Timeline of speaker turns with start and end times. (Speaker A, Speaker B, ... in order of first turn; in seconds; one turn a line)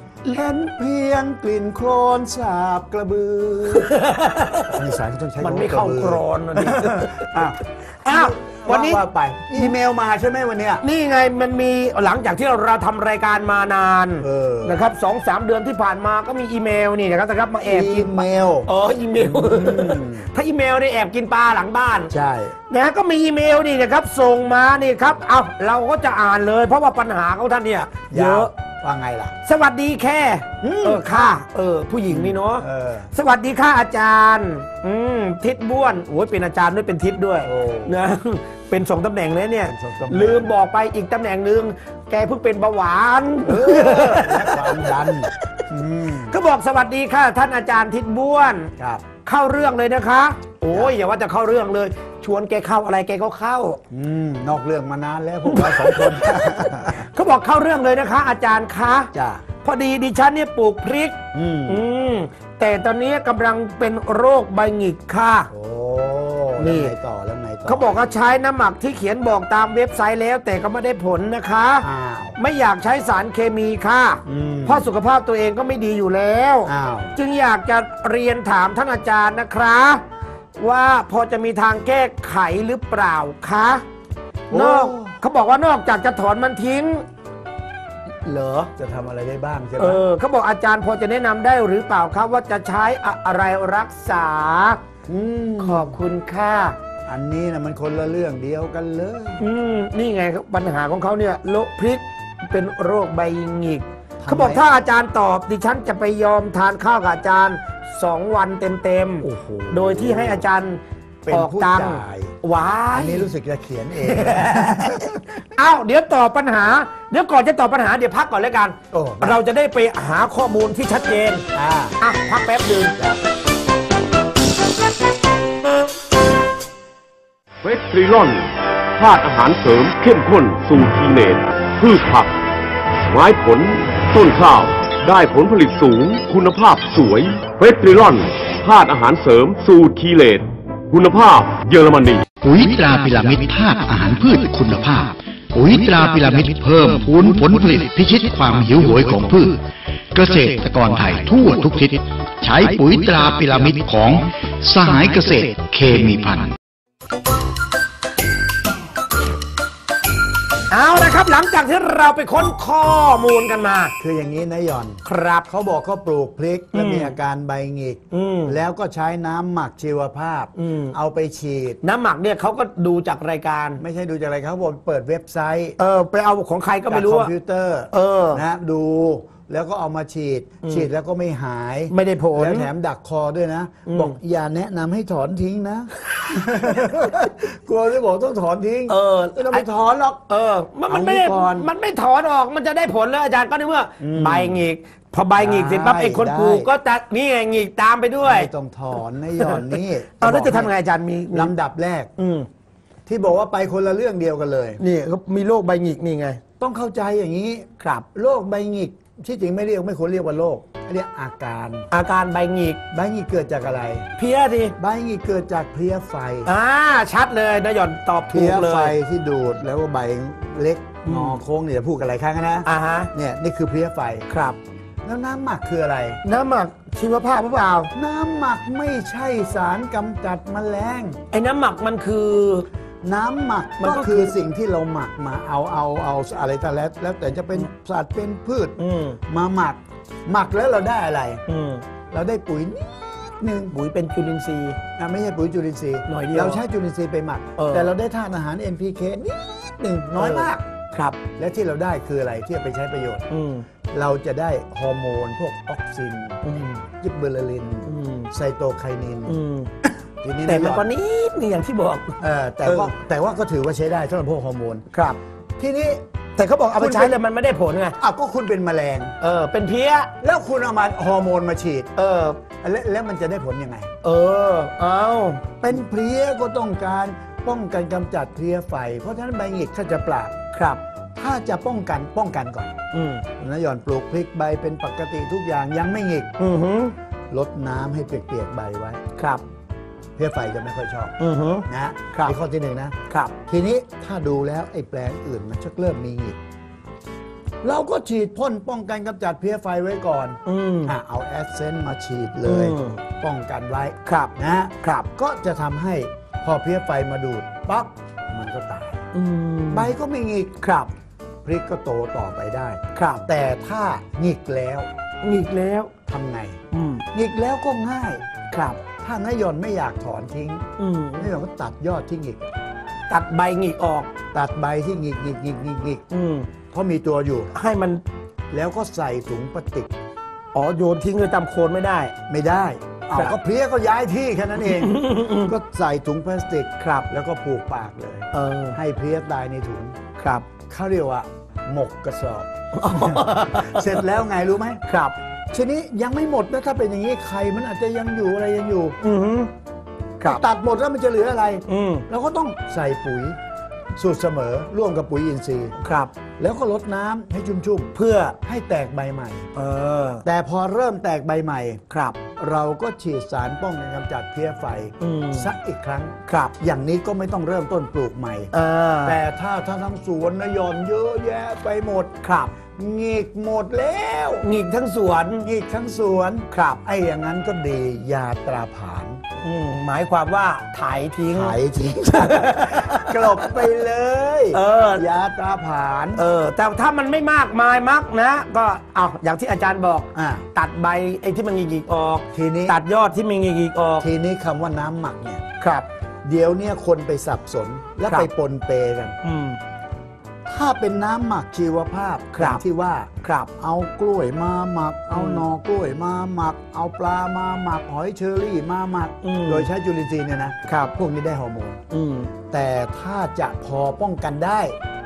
Speaker A: 0.3-4.0
Speaker B: 3.7-4.9
Speaker A: 4.7-10.8
Speaker B: 5.4-9.0
Speaker B: 10.8-22.1
Speaker A: 14.2-14.8
Speaker A: 17.7-20.3
Speaker A: 22.1-22.6
Speaker B: 22.7-28.5
Speaker A: 28.1-29.4
Speaker B: 29.4-45.2
Speaker A: 30.6-31.4
Speaker A: 32.1-33.1
Speaker A: 37.4-38.0
Speaker A: 39.6-40.5
Speaker A: 43.4-46.4
Speaker B: 46.3-48.7
Speaker A: 48.8-49.0
Speaker B: 49.2-53.8
Speaker A: 50.7-51.0
Speaker A: 53.9-57.1
Speaker B: 55.5-65.5
Speaker A: 59.1-59.5
Speaker A: 61.3-61.8
Speaker A: 65.5-68.0
Speaker B: 66.6-66.9
Speaker B: 67.7-71.9
Speaker A: 71.8-72.4
Speaker B: 72.4-80.0
Speaker A: 74.3-74.9
Speaker A: 76.7-77.2
Speaker B: 80.6-83.8
Speaker A: 84.5-85.2
Speaker B: 84.5-87.0
Speaker B: 88.2-88.7
Speaker A: 88.8-90.0
Speaker B: 89.8-94.8
Speaker A: 95.1-96.0
Speaker B: 95.6-96.8
Speaker A: 97.1-99.4
Speaker B: 99.4-113.3
Speaker A: 104.2-104.7
Speaker A: 109.2-110.5
Speaker A: 111.2-112.3
Speaker A: 112.9-115.2
Speaker B: 114.0-121.5
Speaker A: 118.9-119.4
Speaker A: 121.5-122.0
Speaker B: 122.0-123.0
Speaker C: 127.6-132.3
Speaker C: 133.1-142.2
Speaker D: 142.4-149.6
Speaker D: 150.1-156.6
Speaker B: 160.7-163.9
Speaker A: 164.0-171.8
Speaker B: 165.1-165.5
Speaker B: 166.7-167.2
Speaker B: 168.1-168.6
Speaker B: 170.6-170.9
Speaker B: 171.8-173.8
Speaker A: 173.8-175.8
Speaker B: 175.8-177.3
Speaker A: 176.9-190.2
Speaker B: 177.9-178.4
Speaker B: 180.6-180.9
Speaker B: 181.9-182.7
Speaker B: 183.9-184.2
Speaker B: 188.9-189.7
Speaker B: 190.3-198.5
Speaker A: 190.9-191.7
Speaker A: 194.0-194.7
Speaker A: 195.4-196.7
Speaker A: 198.2-200.7
Speaker B: 199.4-201.5
Speaker A: 201.3-202.1
Speaker B: 202.2-202.5
Speaker A: 203.1-204.8
Speaker B: 204.8-206.4
Speaker A: 206.6-211.9
Speaker B: 207.8-208.1
Speaker B: 211.9-212.8
Speaker A: 212.9-214.1
Speaker B: 214.2-214.8
Speaker A: 214.8-216.5
Speaker B: 216.5-219.0
Speaker A: 218.3-224.3
Speaker B: 221.1-221.4
Speaker B: 222.7-223.1
Speaker B: 224.3-224.6
Speaker A: 225.0-226.2
Speaker B: 226.2-227.9
Speaker A: 227.9-231.2
Speaker B: 231.3-232.7
Speaker A: 233.0-241.4
Speaker B: 233.8-234.3
Speaker B: 238.8-239.2
Speaker B: 241.5-241.8
Speaker A: 242.1-243.8
Speaker B: 243.7-244.8
Speaker A: 245.0-250.7
Speaker B: 246.1-246.6
Speaker B: 247.6-247.9
Speaker B: 250.2-251.2
Speaker A: 251.4-253.3
Speaker B: 253.3-253.7
Speaker A: 253.9-260.9
Speaker B: 256.4-256.8
Speaker B: 257.9-258.3
Speaker B: 259.3-259.7
Speaker B: 260.4-262.9
Speaker A: 262.2-264.9
Speaker B: 264.9-265.2
Speaker A: 265.6-266.0
Speaker B: 266.4-268.0
Speaker A: 266.8-267.2
Speaker A: 268.0-269.1
Speaker B: 269.2-270.1
Speaker A: 270.2-271.9
Speaker B: 272.0-272.4
Speaker A: 272.5-273.9
Speaker B: 274.0-275.6
Speaker A: 275.6-280.4
Speaker B: 280.5-280.8
Speaker A: 281.1-282.8
Speaker B: 282.9-283.2
Speaker A: 283.4-286.3
Speaker B: 286.4-286.9
Speaker A: 287.3-289.0
Speaker B: 289.2-289.4
Speaker A: 290.2-291.1
Speaker B: 291.2-292.4
Speaker A: 291.7-296.4
Speaker B: 293.1-293.3
Speaker A: 297.6-309.1
Speaker B: 300.4-300.9
Speaker B: 302.5-303.0
Speaker B: 304.1-305.1
Speaker B: 309.1-309.9
Speaker A: 309.7-310.6
Speaker B: 310.6-310.9
Speaker A: 311.4-314.9
Speaker B: 312.9-313.2
Speaker B: 315.2-315.9
Speaker A: 316.1-318.2
Speaker B: 316.7-317.1
Speaker B: 318.5-318.8
Speaker A: 319.0-322.5
Speaker B: 320.8-321.3
Speaker B: 323.1-324.1
Speaker A: 324.3-326.0
Speaker B: 326.1-326.5
Speaker A: 326.7-327.5
Speaker B: 327.5-328.0
Speaker A: 328.5-330.0
Speaker B: 330.5-332.1
Speaker A: 332.3-340.0
Speaker B: 334.7-335.5
Speaker B: 336.8-337.1
Speaker B: 338.3-338.8
Speaker B: 340.2-340.5
Speaker A: 340.7-344.8
Speaker B: 342.7-344.0
Speaker B: 344.9-345.1
Speaker A: 345.5-349.0
Speaker B: 349.0-349.5
Speaker A: 350.2-353.4
Speaker B: 351.7-352.1
Speaker A: 353.9-355.8
Speaker B: 355.8-356.1
Speaker A: 356.4-359.5
Speaker B: 357.9-358.4
Speaker B: 359.6-360.2
Speaker A: 360.2-361.8
Speaker B: 361.9-362.2
Speaker A: 362.3-368.5
Speaker B: 365.0-365.5
Speaker B: 366.3-366.5
Speaker B: 368.5-369.2
Speaker A: 369.1-372.2
Speaker B: 372.2-372.5
Speaker A: 372.7-374.5
Speaker B: 374.4-375.5
Speaker A: 375.4-379.2
Speaker B: 376.5-376.8
Speaker B: 379.4-383.6
Speaker A: 381.3-386.2
Speaker B: 384.5-385.1
Speaker B: 386.2-394.1
Speaker A: 390.1-390.5
Speaker A: 392.3-392.8
Speaker A: 394.0-395.4
Speaker B: 395.6-395.9
Speaker A: 396.2-399.2
Speaker B: 399.2-399.6
Speaker A: 400.5-411.8
Speaker B: 402.3-402.6
Speaker B: 403.2-403.5
Speaker B: 405.1-405.4
Speaker B: 409.2-409.7
Speaker B: 410.7-410.9
Speaker B: 411.9-412.3
Speaker A: 412.5-414.8